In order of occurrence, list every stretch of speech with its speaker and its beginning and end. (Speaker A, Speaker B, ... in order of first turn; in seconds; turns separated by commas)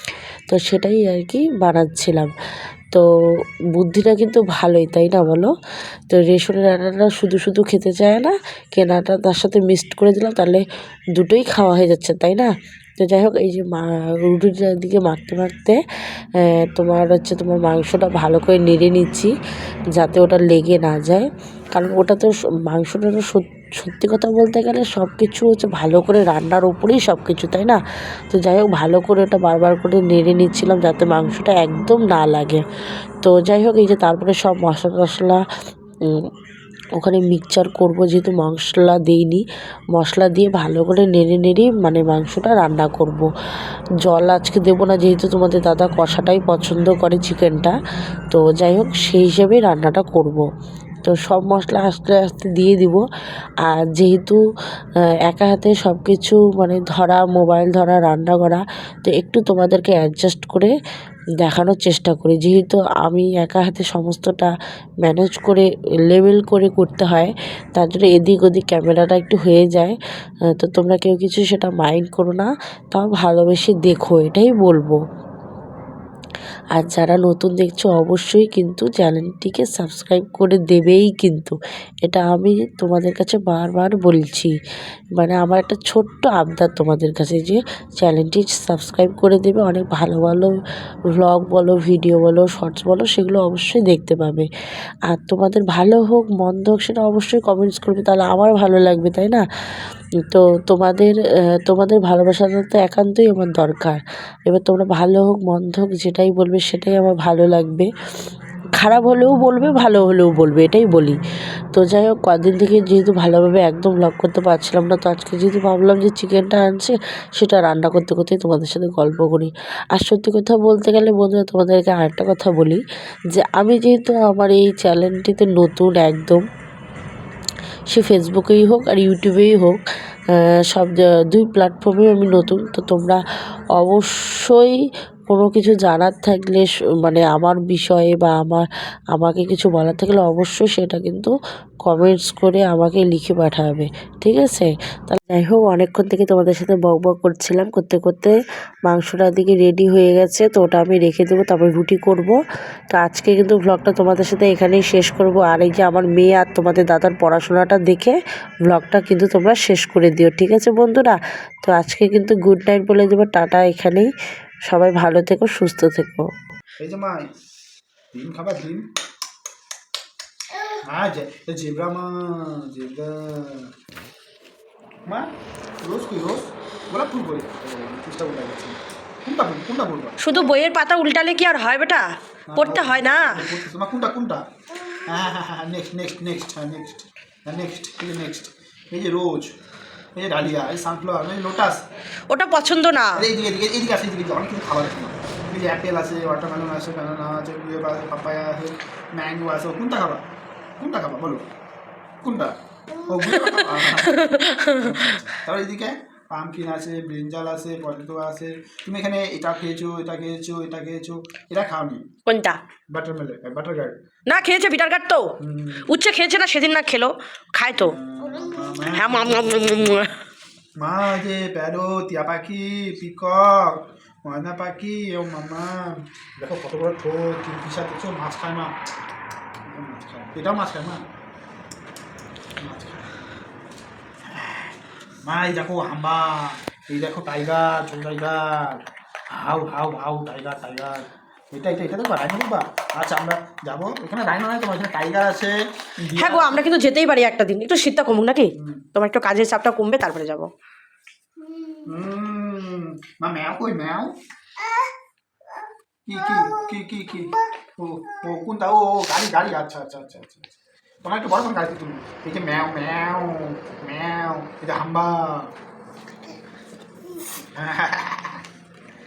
Speaker A: 0.5-2.3, Speaker A: 3.7-5.5, Speaker A: 6.1-10.6, Speaker A: 11.2-12.5, Speaker A: 13.0-15.8, Speaker A: 16.4-19.3, Speaker A: 19.9-27.8, Speaker A: 28.3-32.6, Speaker A: 33.2-35.4, Speaker A: 37.0-39.4, Speaker A: 40.0-43.3, Speaker A: 44.0-47.7, Speaker A: 48.3-50.4, Speaker A: 51.0-53.0, Speaker A: 53.7-54.4, Speaker A: 55.3-60.7, Speaker A: 61.4-64.5, Speaker A: 65.0-70.0, Speaker A: 70.5-75.0, Speaker A: 76.8-84.5, Speaker A: 85.2-90.5, Speaker A: 91.2-94.5, Speaker A: 95.1-107.9, Speaker A: 108.8-111.2, Speaker A: 111.7-122.8, Speaker A: 123.3-126.4, Speaker A: 127.9-129.8, Speaker A: 130.3-133.2, Speaker A: 133.8-134.8, Speaker A: 135.3-141.3, Speaker A: 141.9-148.3, Speaker A: 148.9-152.3, Speaker A: 152.9-158.2, Speaker A: 158.7-164.1, Speaker A: 164.7-166.3, Speaker B: 166.8-167.2, Speaker B: 168.1-168.8, Speaker B: 170.8-173.7, Speaker B: 175.8-180.2, Speaker C: 180.2-183.4, Speaker B: 182.5-184.4, Speaker B: 185.1-189.5, Speaker B: 190.2-191.8, Speaker C: 192.3-193.3, Speaker B: 193.1-200.2, Speaker B: 200.8-201.4, Speaker B: 202.2-204.3, Speaker C: 203.2-205.3, Speaker B: 204.8-212.0, Speaker C: 212.2-212.6, Speaker B: 212.9-214.0, Speaker C: 214.3-215.3, Speaker B: 215.4-216.0, Speaker C: 215.9-217.9, Speaker B: 217.8-220.0, Speaker C: 218.9-220.2, Speaker B: 220.8-228.7, Speaker B: 229.7-231.0, Speaker B: 232.6-233.1, Speaker B: 234.3-234.7, Speaker B: 235.2-238.8, Speaker B: 239.4-246.6, Speaker C: 246.1-250.5, Speaker B: 248.6-248.8, Speaker B: 251.8-254.1, Speaker B: 256.1-260.4, Speaker B: 261.0-265.5, Speaker B: 267.5-268.4